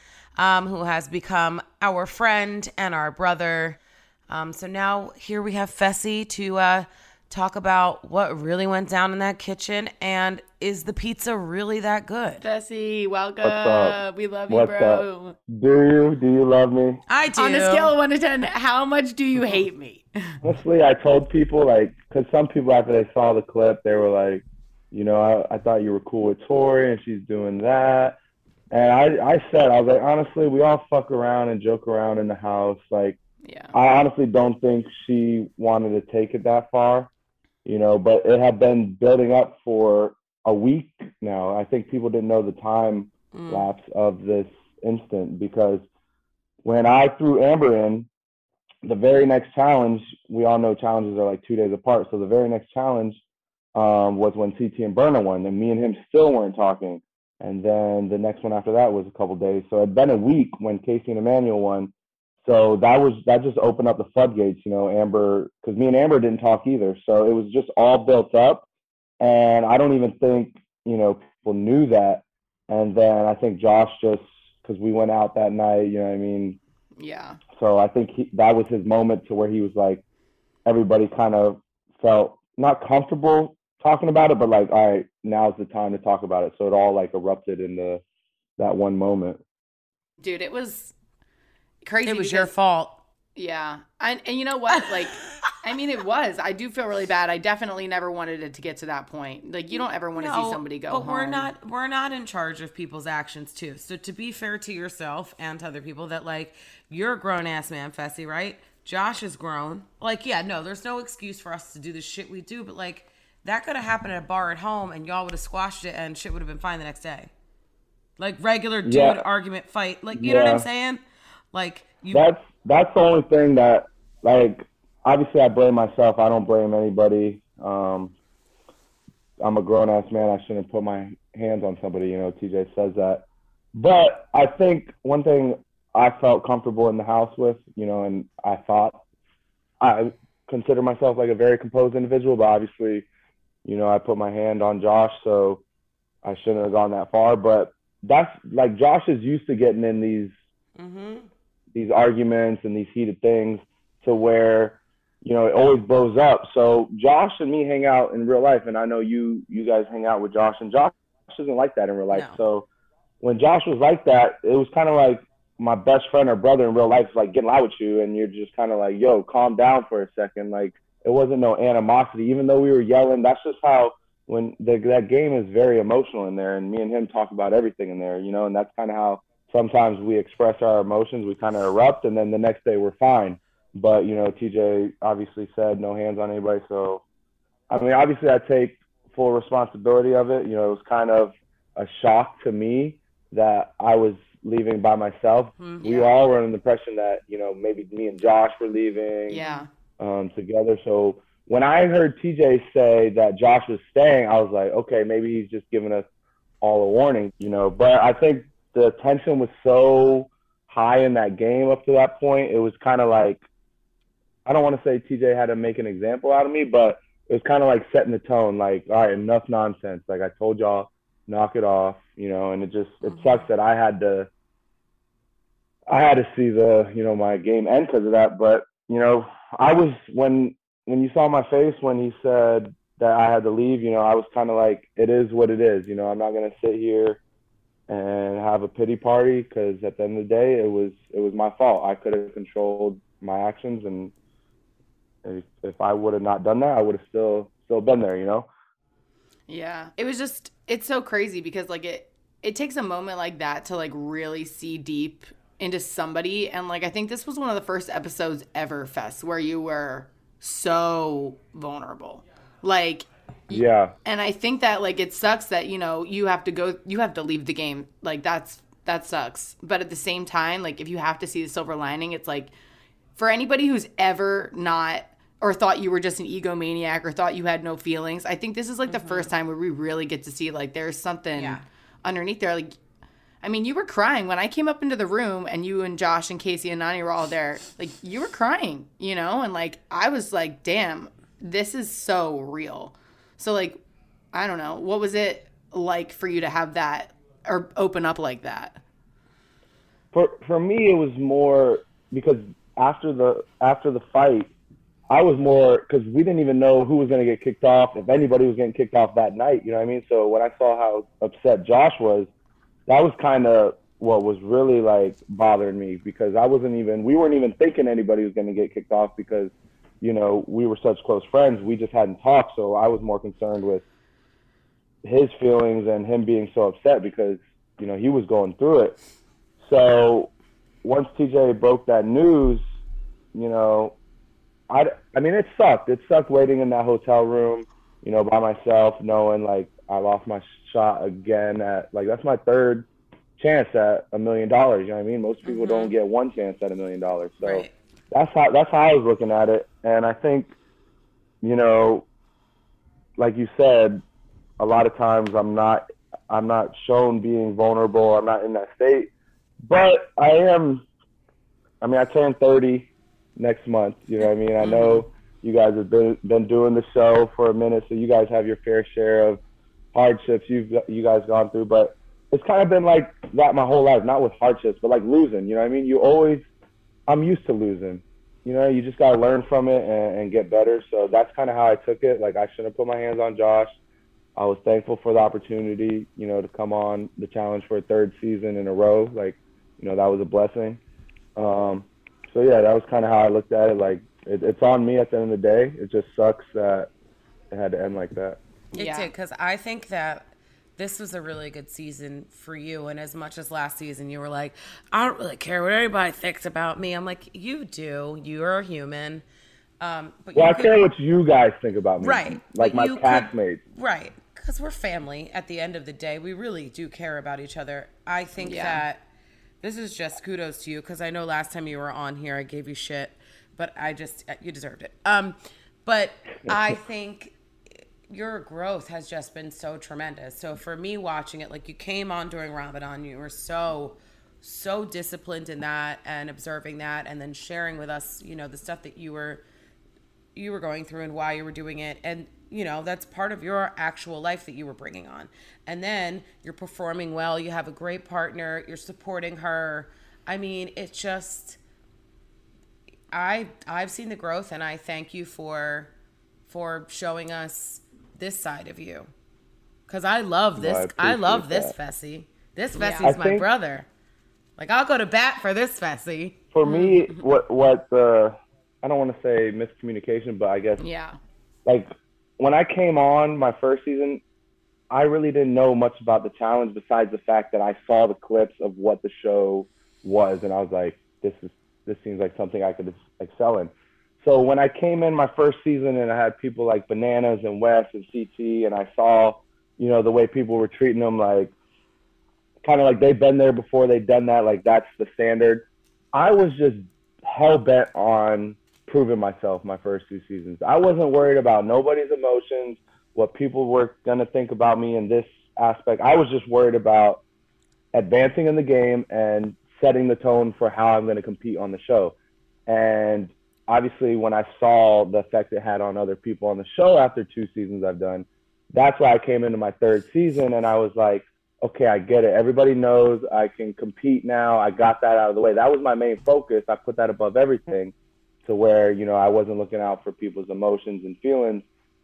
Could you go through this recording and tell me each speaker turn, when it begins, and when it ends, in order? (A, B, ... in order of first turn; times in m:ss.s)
0:00.4-0:12.5 A
0:12.4-0:15.4 B
0:13.4-0:14.0 C
0:14.5-0:17.0 C
0:17.1-0:18.0 A
0:17.4-0:20.3 B
0:20.4-0:28.2 C
0:28.7-0:33.2 C
0:33.4-0:33.7 B
0:33.7-0:37.1 C
0:37.7-0:45.8 C
0:43.3-0:43.7 A
0:46.6-0:48.1 C
0:48.8-0:53.2 C
0:53.8-1:01.9 C
1:02.4-1:08.6 C
1:09.2-1:16.6 C
1:17.0-1:17.4 B
1:17.6-1:20.0 C
1:20.7-1:28.0 C
1:28.6-1:29.4 C
1:30.2-1:30.9 B
1:31.8-1:32.5 B
1:32.0-1:33.0 A
1:33.4-1:41.5 B
1:34.8-1:35.1 A
1:40.2-1:57.3 A
1:58.2-2:01.0 A
1:58.8-1:59.2 C
2:00.1-2:00.6 C
2:01.5-2:02.3 A
2:02.1-2:08.1 C
2:09.4-2:19.0 C
2:19.8-2:23.1 C
2:23.6-2:25.6 C
2:26.2-2:30.3 C
2:30.8-2:31.3 A
2:31.7-2:42.7 C
2:42.1-2:42.4 A
2:43.2-3:07.0 C
3:07.7-3:19.4 C
3:15.6-3:16.1 A
3:19.3-3:19.7 B
3:20.0-3:26.0 C
3:26.6-3:33.4 C
3:34.4-3:44.3 C
3:43.1-3:43.4 A
3:45.9-3:57.2 C
3:57.9-4:04.1 C
4:05.2-4:08.5 C
4:09.5-4:32.5 B
4:23.5-4:23.9 C
4:33.2-4:42.8 B
4:38.9-4:39.3 A
4:41.4-4:41.6 A
4:43.4-4:53.8 B
4:54.3-4:58.8 B
5:00.1-5:04.5 C
5:05.1-5:12.3 C
5:12.9-5:23.8 C
5:25.0-5:29.0 C
5:29.6-5:30.3 C
5:30.8-5:32.6 C
5:33.3-5:34.0 C
5:34.7-5:42.9 C
5:43.4-5:50.5 C
5:45.4-5:46.0 A
5:47.4-5:47.7 A
5:51.4-5:52.1 C
5:53.2-5:54.0 C
5:54.6-5:59.1 C
5:59.6-6:00.8 C
6:01.8-6:09.4 C
6:04.6-6:05.0 A
6:09.9-6:16.4 C
6:17.1-6:23.7 C
6:24.4-6:30.8 C
6:31.4-6:36.9 C
6:37.5-6:38.4 C
6:38.7-6:49.2 A
6:38.8-6:39.1 B
6:49.8-6:50.8 A
6:50.4-6:53.6 C
6:52.0-6:59.0 A
6:58.4-6:58.8 B
6:59.6-7:19.4 A
7:20.4-7:31.6 A
7:33.1-7:35.9 A
7:36.5-7:39.1 A
7:39.9-7:43.9 A
7:40.6-7:41.7 C
7:42.8-7:43.1 B
7:43.0-7:43.5 C
7:44.6-7:46.9 A
7:46.5-7:50.8 C
7:50.8-7:51.2 B
7:51.7-7:54.2 C
7:54.9-8:03.7 C
8:04.2-8:11.5 C
8:12.6-8:27.2 C
8:27.9-8:32.2 C
8:32.7-8:47.9 C
8:48.4-8:51.6 C